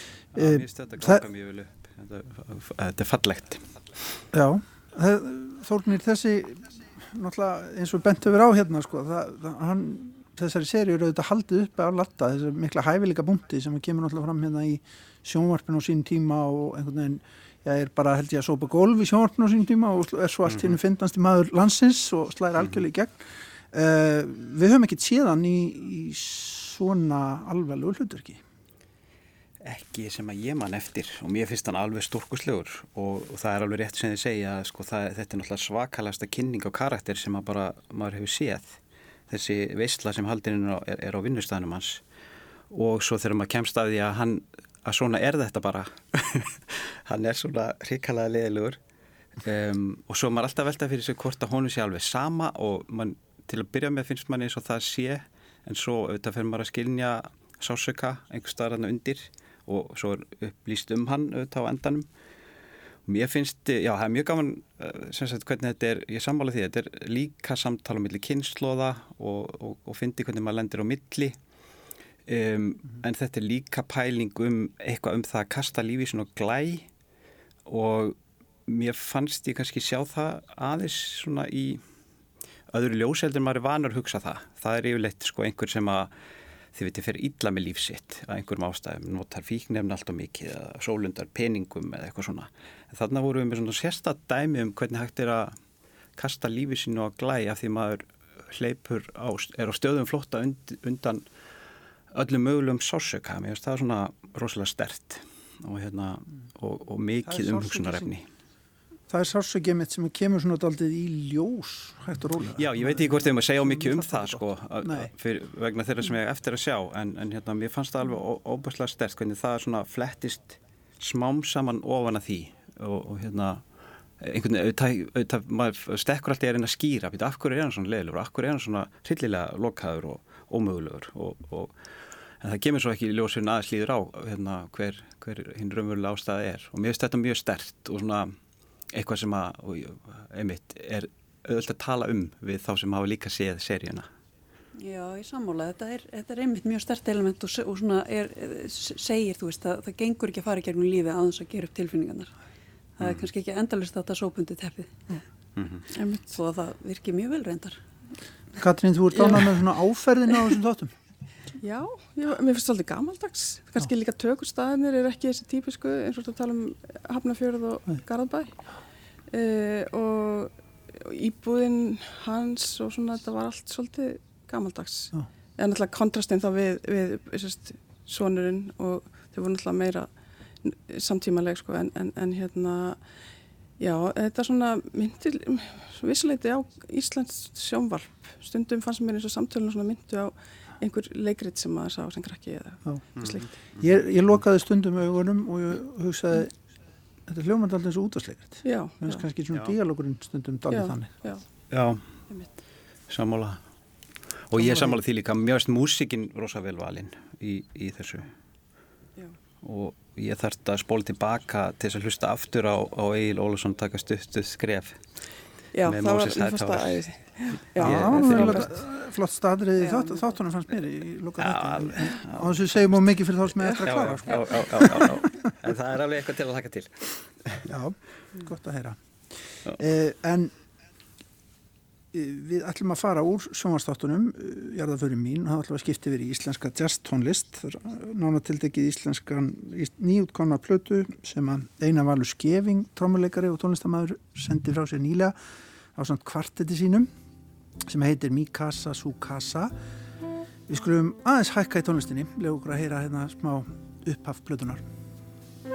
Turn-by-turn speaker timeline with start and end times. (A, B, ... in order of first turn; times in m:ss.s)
0:00.3-0:01.2 A
0:00.3-0:04.2 B
0:04.3-0:23.2 A
0:23.7-0:28.4 A
0:29.6-0:38.8 B
0:39.3-0:42.0 B
0:42.7-0:48.8 B
0:49.4-1:02.1 B
1:03.1-1:11.3 B
1:12.3-1:16.9 B
1:17.6-1:21.8 B
1:22.7-1:26.1 B
1:26.7-1:35.5 B
1:36.2-1:41.2 B
1:42.1-1:48.2 B
1:47.2-1:48.1 A
1:49.1-1:55.1 A
1:52.6-2:03.6 B
2:04.2-2:11.7 B
2:12.4-2:18.3 B
2:18.9-2:24.1 B
2:24.8-2:32.3 C
2:33.0-2:35.2 C
2:35.6-2:35.8 B
2:35.9-2:36.2 D
2:36.3-2:37.8 C
2:38.6-2:40.9 A
2:39.2-2:39.5 D
2:41.6-2:48.6 D
2:49.3-3:00.1 D
3:00.6-3:03.0 D
3:03.8-3:13.5 D
3:13.2-3:13.5 B
3:13.8-3:16.5 A
3:17.3-3:21.1 A
3:18.6-3:19.2 D
3:20.7-3:21.4 D
3:21.7-3:22.0 B
3:23.1-3:23.6 B
3:24.5-3:28.3 B
3:24.5-3:25.0 A
3:29.6-3:35.0 B
3:35.7-3:38.7 D
3:35.8-3:37.0 B
3:37.7-3:38.7 B
3:37.8-3:45.5 A
3:41.4-3:42.7 B
3:43.8-3:47.7 B
3:47.6-3:50.5 A
3:52.1-4:05.4 A
4:05.9-4:07.1 A
4:07.9-4:09.7 A
4:10.7-4:14.8 A